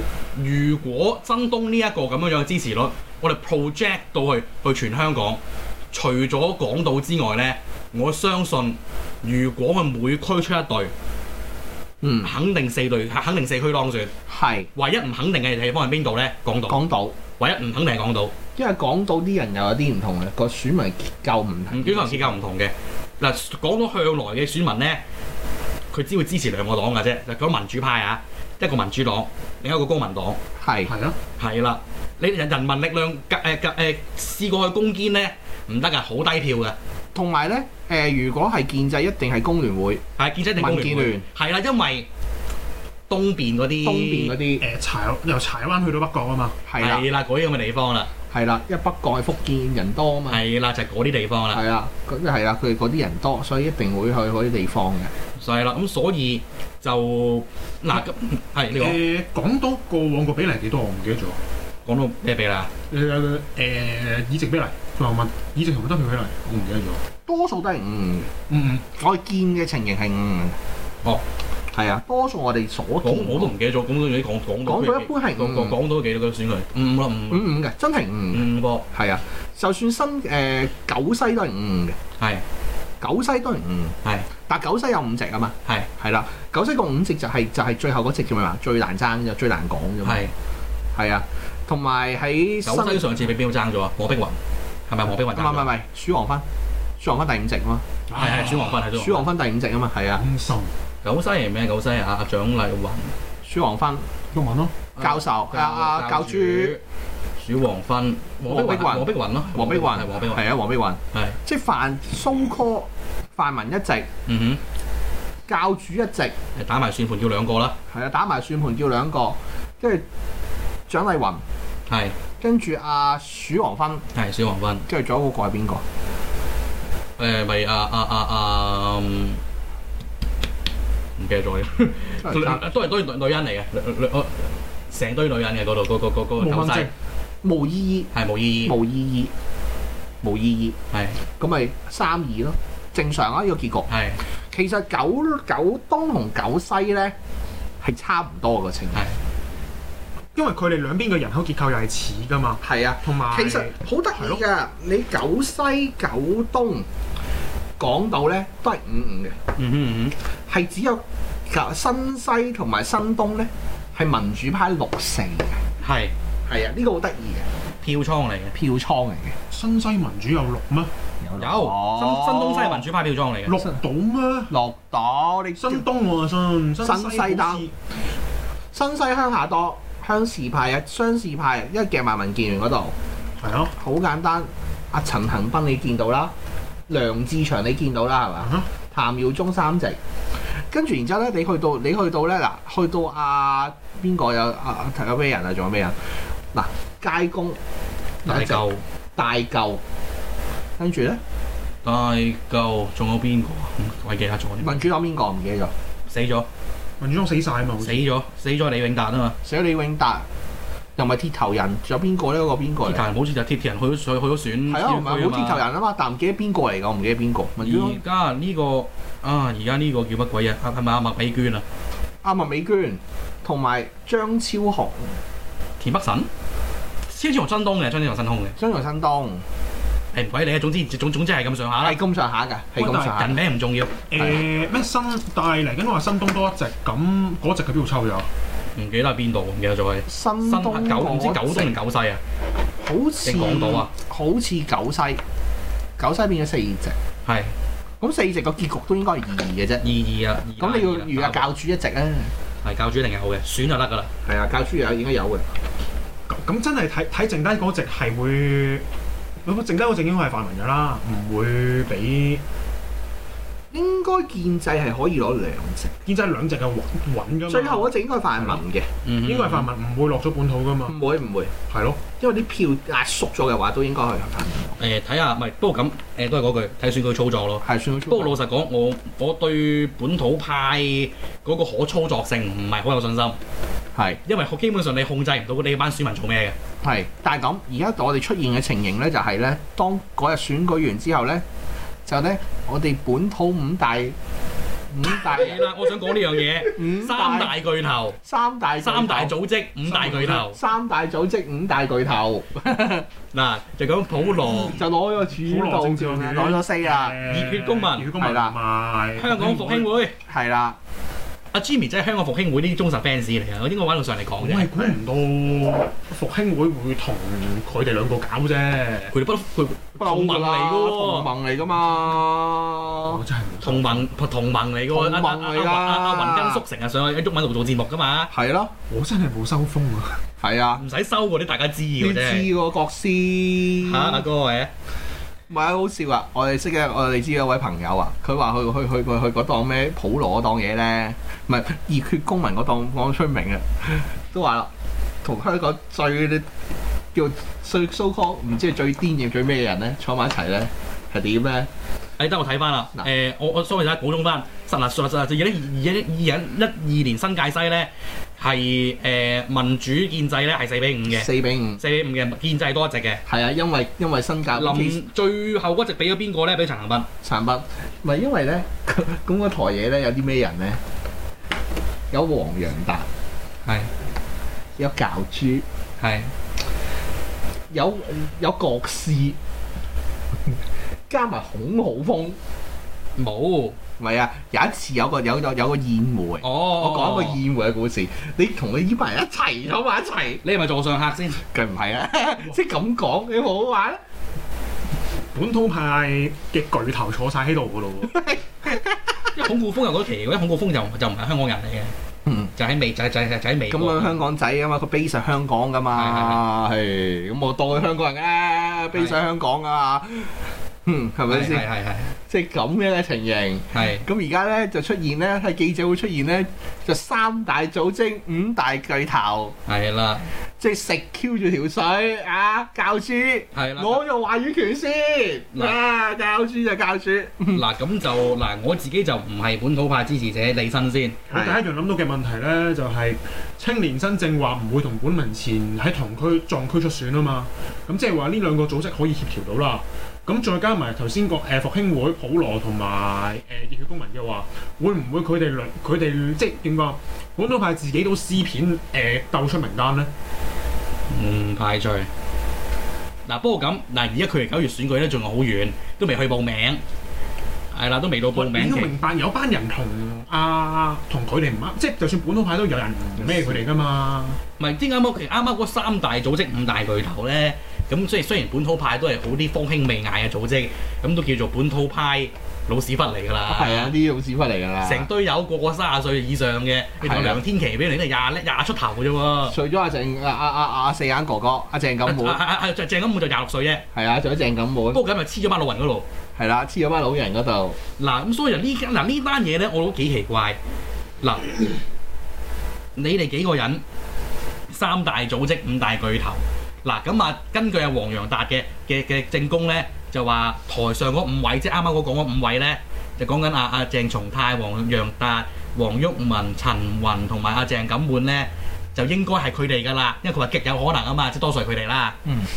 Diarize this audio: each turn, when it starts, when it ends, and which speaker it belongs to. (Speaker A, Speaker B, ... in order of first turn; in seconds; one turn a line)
Speaker A: 0.3-5.4
Speaker A: 5.9-10.9
Speaker B: 12.0-12.3
Speaker A: 12.2-14.1
Speaker B: 14.3-14.7
Speaker A: 14.8-16.8
Speaker B: 16.7-17.2
Speaker A: 17.4-18.3
Speaker B: 18.6-22.4
Speaker A: 21.7-25.0
Speaker A: 25.9-30.4
Speaker B: 30.6-30.9
Speaker C: 30.9-31.2
Speaker A: 31.4-36.8
Speaker B: 37.1-40.0
Speaker A: 40.2-42.1
Speaker B: 40.6-41.2
Speaker A: 43.1-44.4
Speaker B: 43.8-44.6
Speaker C: 44.6-46.6
Speaker B: 46.7-47.1
Speaker A: 46.8-48.1
Speaker B: 48.3-50.4
Speaker A: 50.3-51.6
Speaker B: 51.5-55.1
Speaker A: 55.4-59.0
Speaker C: 58.8-61.4
Speaker A: 61.9-62.7
Speaker C: 62.9-67.0
Speaker B: 67.3-68.3
Speaker C: 68.5-68.9
Speaker B: 69.0-70.6
Speaker B: 71.7-73.5
Speaker A: 73.0-77.5
Speaker B: 74.6-75.8
Speaker B: 77.3-82.0
Speaker A: 78.3-78.8
Speaker B: 83.0-90.2
Speaker A: 90.0-90.3
Speaker B: 91.0-93.1
Speaker A: 92.6-94.4
Speaker A: 94.9-95.7
Speaker B: 95.3-96.5
Speaker B: 97.0-97.8
Speaker C: 98.1-98.8
Speaker A: 98.2-99.3
Speaker B: 98.9-100.3
Speaker C: 100.2-100.7
Speaker A: 101.0-103.1
Speaker B: 103.5-104.1
Speaker C: 104.3-104.8
Speaker A: 105.0-106.8
Speaker B: 105.0-106.8
Speaker A: 107.4-110.5
Speaker B: 108.5-114.1
Speaker A: 114.3-114.6
Speaker B: 115.5-116.3
Speaker A: 116.6-117.8
Speaker B: 117.9-120.0
Speaker B: 120.9-121.4
Speaker A: 121.9-122.2
Speaker B: 122.4-124.0
Speaker A: 124.1-124.9
Speaker B: 124.9-125.8
Speaker A: 127.2-129.4
Speaker A: 131.2-136.9
Speaker B: 132.2-132.6
Speaker C: 136.4-136.9
Speaker B: 137.4-138.1
Speaker A: 138.1-138.8
Speaker B: 138.6-139.3
Speaker B: 140.2-140.8
Speaker A: 140.9-141.2
Speaker B: 141.4-143.9
Speaker A: 143.9-144.2
Speaker B: 144.5-147.2
Speaker B: 147.8-149.1
Speaker A: 148.9-149.2
Speaker C: 150.3-154.4
Speaker B: 152.6-156.9
Speaker B: 157.8-159.4
Speaker A: 159.6-160.1
Speaker B: 160.5-165.6
Speaker A: 165.8-166.1
Speaker B: 166.5-167.5
Speaker A: 167.8-168.5
Speaker B: 168.5-169.4
Speaker C: 169.5-170.9
Speaker B: 171.2-172.9
Speaker A: 171.4-173.6
Speaker C: 173.5-174.5
Speaker B: 174.5-175.8
Speaker C: 175.6-177.7
Speaker B: 176.8-177.7
Speaker B: 178.7-182.9
Speaker C: 183.4-183.7
Speaker B: 183.8-186.3
Speaker B: 186.9-190.0
Speaker B: 190.7-196.0
Speaker B: 196.5-197.6
Speaker B: 198.2-198.7
Speaker A: 198.3-198.8
Speaker B: 199.2-199.8
Speaker B: 200.8-201.2
Speaker A: 201.8-204.8
Speaker B: 204.6-205.7
Speaker A: 206.1-206.5
Speaker C: 207.0-208.1
Speaker A: 207.8-209.4
Speaker B: 209.4-210.3
Speaker B: 211.0-213.0
Speaker A: 212.8-215.6
Speaker B: 214.7-218.0
Speaker A: 217.6-221.6
Speaker B: 222.2-225.2
Speaker A: 225.8-226.3
Speaker A: 227.1-228.6
Speaker B: 228.6-229.4
Speaker A: 230.1-232.0
Speaker B: 231.8-233.4
Speaker C: 232.8-233.2
Speaker A: 232.8-234.0
Speaker C: 234.1-238.3
Speaker B: 234.2-234.4
Speaker A: 238.8-242.2
Speaker B: 240.1-241.7
Speaker B: 242.8-245.2
Speaker A: 243.2-243.9
Speaker B: 246.0-247.0
Speaker A: 247.3-247.5
Speaker B: 248.0-249.8
Speaker A: 249.8-251.5
Speaker B: 250.6-252.3
Speaker A: 252.6-254.1
Speaker B: 254.2-255.5
Speaker C: 256.3-258.8
Speaker C: 259.4-262.4
Speaker B: 263.7-266.0
Speaker C: 266.1-268.6
Speaker B: 267.5-268.9
Speaker A: 269.0-269.7
Speaker C: 269.2-271.0
Speaker B: 270.9-271.5
Speaker C: 271.7-272.0
Speaker B: 272.2-274.8
Speaker A: 274.8-283.4
Speaker B: 277.6-278.4
Speaker B: 283.9-284.2
Speaker A: 284.2-286.6
Speaker B: 286.8-291.4
Speaker B: 292.1-294.2
Speaker B: 294.9-295.7
Speaker A: 295.0-298.2
Speaker B: 296.6-297.5
Speaker B: 298.2-299.4
Speaker A: 298.8-300.6
Speaker C: 299.9-300.4
Speaker B: 300.5-303.1
Speaker A: 303.3-304.8
Speaker B: 304.7-307.2
Speaker C: 305.3-309.9
Speaker A: 307.3-308.1
Speaker B: 308.2-308.6
Speaker A: 309.2-310.1
Speaker B: 310.3-310.8
Speaker A: 311.5-315.0
Speaker C: 314.4-319.1
Speaker A: 319.1-321.3
Speaker B: 320.0-323.2
Speaker C: 323.0-324.1
Speaker A: 323.6-328.3
Speaker B: 324.9-326.6
Speaker B: 328.3-328.7
Speaker C: 328.9-330.2
Speaker B: 330.4-330.8
Speaker A: 330.8-332.5
Speaker B: 332.0-334.3
Speaker A: 333.8-334.7
Speaker B: 335.5-344.7
Speaker B: 345.2-346.5
Speaker B: 347.1-351.7
Speaker A: 352.2-363.2
Speaker B: 361.1-361.8
Speaker B: 363.3-365.0
Speaker A: 364.5-367.1
Speaker B: 367.2-370.8
Speaker B: 372.1-373.1
Speaker A: 373.6-373.9
Speaker B: 374.8-375.6
Speaker A: 376.0-376.3
Speaker B: 377.7-379.4
Speaker B: 381.1-382.4
Speaker A: 383.2-383.8
Speaker B: 384.0-390.4
Speaker A: 386.4-387.4
Speaker A: 390.4-391.4
Speaker B: 391.4-394.0
Speaker C: 395.3-398.2
Speaker B: 398.1-399.3
Speaker A: 399.3-401.9
Speaker B: 402.3-402.5
Speaker A: 402.6-404.2
Speaker B: 403.7-411.7
Speaker A: 405.9-406.4
Speaker A: 411.3-412.1
Speaker B: 412.3-419.6
Speaker A: 413.7-414.1
Speaker A: 419.7-420.3
Speaker B: 420.6-427.6
Speaker A: 423.5-424.0
Speaker A: 427.5-431.2
Speaker C: 431.3-450.1
Speaker B: 431.3-431.6
Speaker A: 451.1-452.1
Speaker A: 453.3-456.8
Speaker A: 457.7-458.9
Speaker C: 458.3-464.4
Speaker B: 463.2-463.6
Speaker A: 464.6-473.9
Speaker B: 473.5-475.1
Speaker A: 474.8-479.6
Speaker B: 477.0-477.4
Speaker B: 479.5-482.4
Speaker A: 482.1-483.9
Speaker B: 483.9-485.0
Speaker A: 484.9-486.1
Speaker B: 486.4-487.8
Speaker A: 488.0-490.6
Speaker A: 491.2-491.6
Speaker A: 493.0-493.8
Speaker A: 494.7-512.2